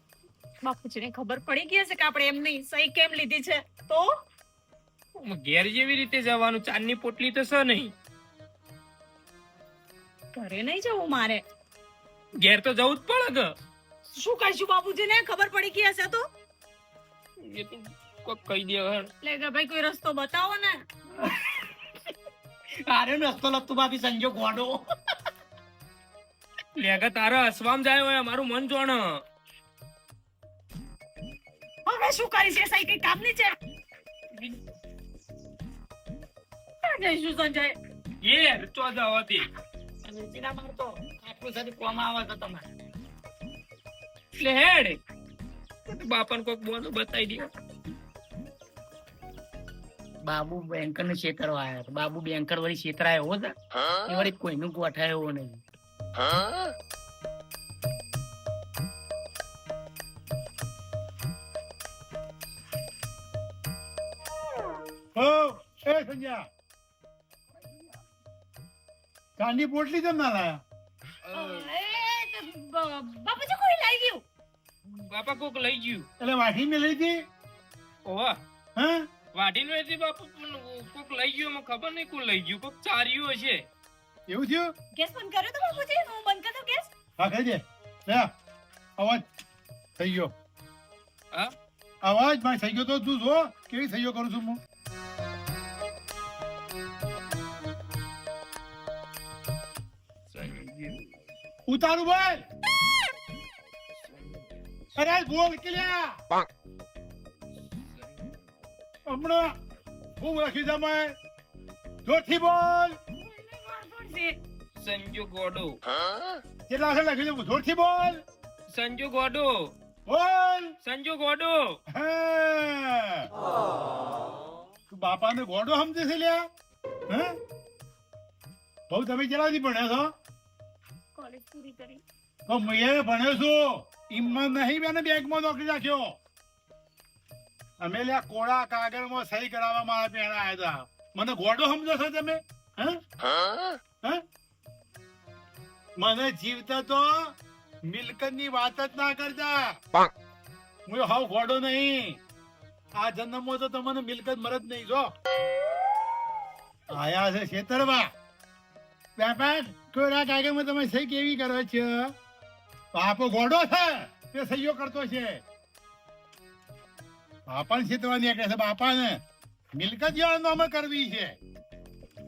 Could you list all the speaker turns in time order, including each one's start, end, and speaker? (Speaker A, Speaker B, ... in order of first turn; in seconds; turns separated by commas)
Speaker A: 0.6-4.1, Speaker B: 5.2-7.9, Speaker A: 10.3-11.4, Speaker B: 12.3-13.5, Speaker A: 14.1-16.2, Speaker B: 17.4-19.1, Speaker A: 19.2-20.8, Speaker C: 21.2-21.5, Speaker C: 22.8-24.9, Speaker B: 26.8-29.2, Speaker A: 31.9-33.5, Speaker A: 36.8-37.7, Speaker B: 38.2-39.5, Speaker C: 40.0-42.6, Speaker B: 44.4-45.0, Speaker B: 45.9-47.5, Speaker C: 50.2-53.5, Speaker C: 54.0-55.6, Speaker D: 65.1-66.5, Speaker D: 69.4-70.6, Speaker B: 71.3-71.7, Speaker A: 71.3-74.2, Speaker B: 74.8-76.1, Speaker D: 76.2-77.2, Speaker B: 78.0-78.4, Speaker D: 78.8-79.0, Speaker B: 79.3-83.7, Speaker D: 84.3-84.7, Speaker A: 85.0-86.9, Speaker D: 87.2-88.3, Speaker D: 89.0-89.2, Speaker D: 90.0-90.3, Speaker D: 92.0-94.6, Speaker B: 100.3-101.1, Speaker D: 101.7-102.4, Speaker B: 104.1-104.4, Speaker D: 105.0-106.2, Speaker D: 109.1-109.5, Speaker D: 110.2-111.1, Speaker D: 112.0-113.0, Speaker A: 113.2-114.3, Speaker B: 114.8-115.8, Speaker D: 116.7-118.2, Speaker B: 118.7-119.7, Speaker D: 120.0-120.7, Speaker B: 120.8-121.8, Speaker D: 121.9-123.3, Speaker D: 124.9-126.5, Speaker D: 127.1-127.3, Speaker D: 128.9-130.1, Speaker A: 131.1-132.0, Speaker D: 132.5-136.2, Speaker D: 137.8-143.0, Speaker D: 146.0-147.3, Speaker D: 147.8-149.8, Speaker D: 150.9-152.2, Speaker D: 153.0-155.1, Speaker D: 156.9-158.1, Speaker D: 159.2-162.1, Speaker D: 162.9-165.4, Speaker D: 167.5-169.2, Speaker D: 169.7-171.4